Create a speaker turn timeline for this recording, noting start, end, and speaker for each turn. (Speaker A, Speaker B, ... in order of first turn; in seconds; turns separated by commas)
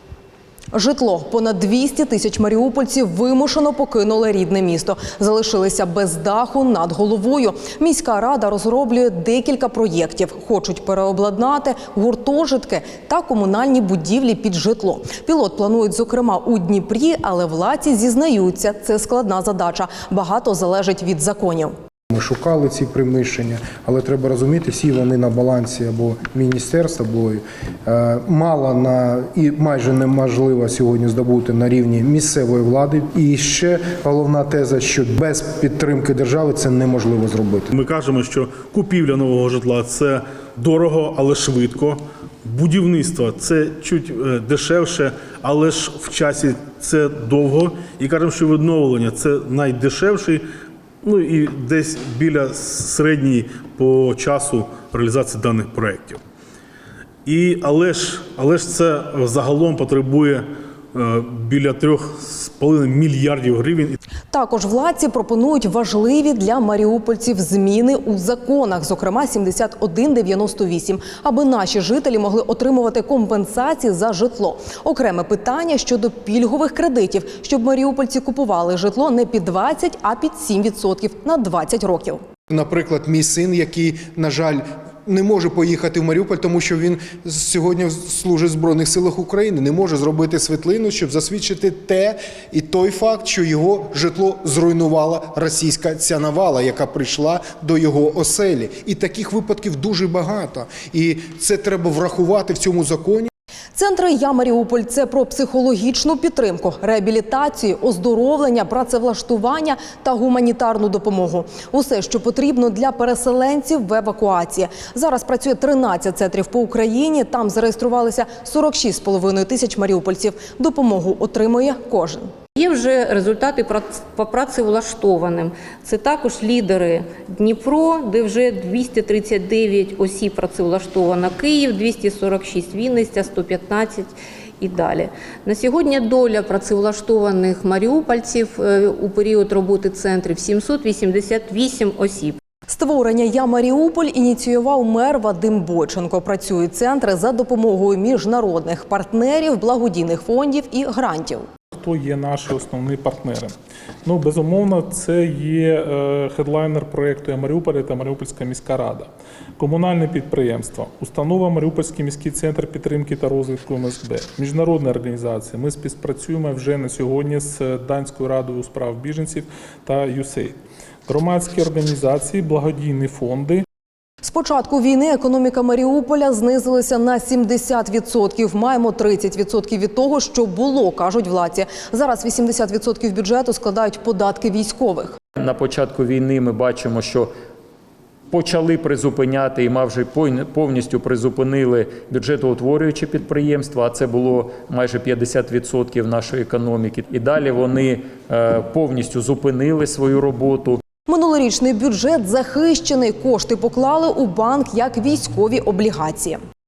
Speaker A: 0.7-21.7, Speaker B: 22.1-37.7, Speaker C: 37.7-50.4, Speaker C: 51.0-56.2, Speaker C: 57.2-64.0, Speaker A: 64.3-82.2, Speaker B: 82.5-103.3, Speaker A: 103.7-122.3, Speaker D: 122.6-142.4, Speaker A: 142.7-151.5, Speaker E: 151.7-153.5, Speaker E: 154.0-170.6, Speaker E: 171.1-173.7, Speaker A: 174.2-185.2, Speaker F: 185.4-187.3, Speaker F: 188.3-200.8, Speaker A: 201.1-206.4